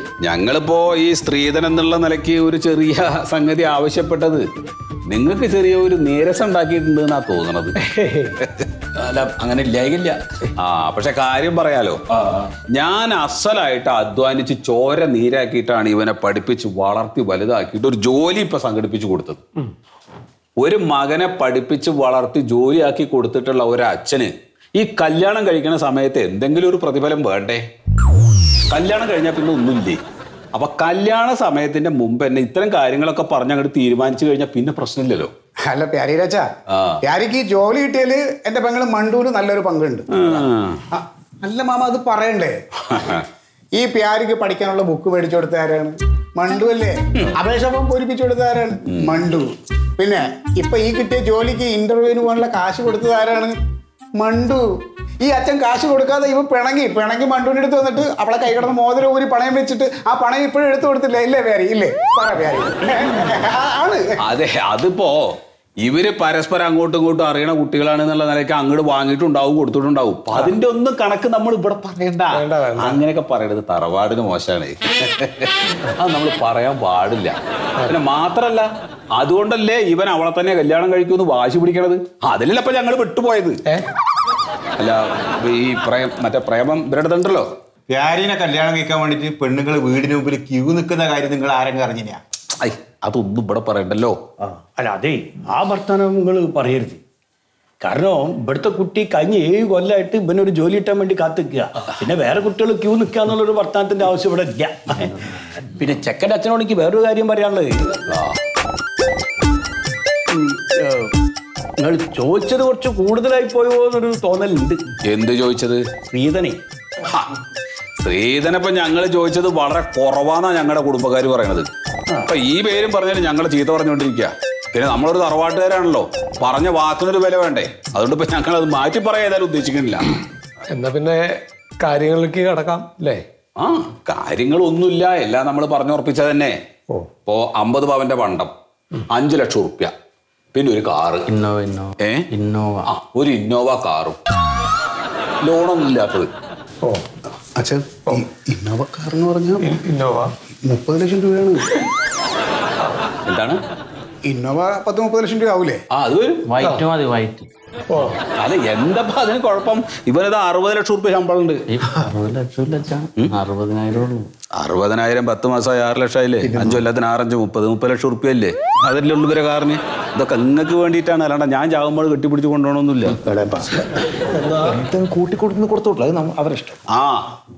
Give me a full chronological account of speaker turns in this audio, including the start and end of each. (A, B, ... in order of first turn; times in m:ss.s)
0:00.2-0:04.4 A
0:05.1-0:07.8 A
0:07.8-0:08.4 B
0:08.4-0:19.4 A
0:20.6-0:27.6 A
0:28.7-0:30.0 A
0:30.5-0:35.3 A
0:35.7-0:36.5 C
0:36.7-0:37.0 A
0:37.0-0:40.3 C
0:40.1-0:40.8 A
0:40.9-0:42.6 C
0:42.9-0:43.2 A
0:43.8-0:49.5 C
0:48.9-0:49.2 A
0:50.0-0:53.5 C
0:54.2-0:54.6 C
0:55.2-1:04.0 C
1:04.2-1:05.2 A
1:05.8-1:23.6 A
1:12.3-1:13.0 B
1:24.8-1:27.5 A
1:27.9-1:32.1 D
1:32.6-1:34.2 A
1:34.5-1:37.0 E
1:37.8-1:48.0 E
1:48.1-1:48.4 A
1:50.3-1:51.1 E
1:51.8-1:54.8 E
1:55.0-1:55.9 A
1:56.1-1:56.6 E
1:57.0-1:57.3 A
1:58.0-2:01.7 A
2:02.2-2:10.1 A
2:10.7-2:13.2 B
2:13.6-2:16.5 A
2:17.2-2:18.5 A
2:19.1-2:19.9 A
2:20.5-2:21.3 A
2:21.3-2:22.8 F
2:22.0-2:22.3 A
2:22.8-2:24.2 A
2:25.4-2:26.3 A
2:26.8-2:27.1 B
2:27.6-2:29.7 C
2:29.6-2:30.3 B
2:30.6-2:31.8 C
2:33.2-2:33.6 A
2:34.2-2:35.8 C
2:35.9-2:36.5 A
2:36.5-2:37.4 F
2:36.6-2:36.9 B
2:37.9-2:38.2 B
2:38.3-2:41.6 A
2:41.7-2:44.3 F
2:44.6-2:53.2 A
2:46.4-2:46.8 C
2:53.2-2:53.8 C
2:54.6-2:56.7 D
2:56.9-2:57.2 A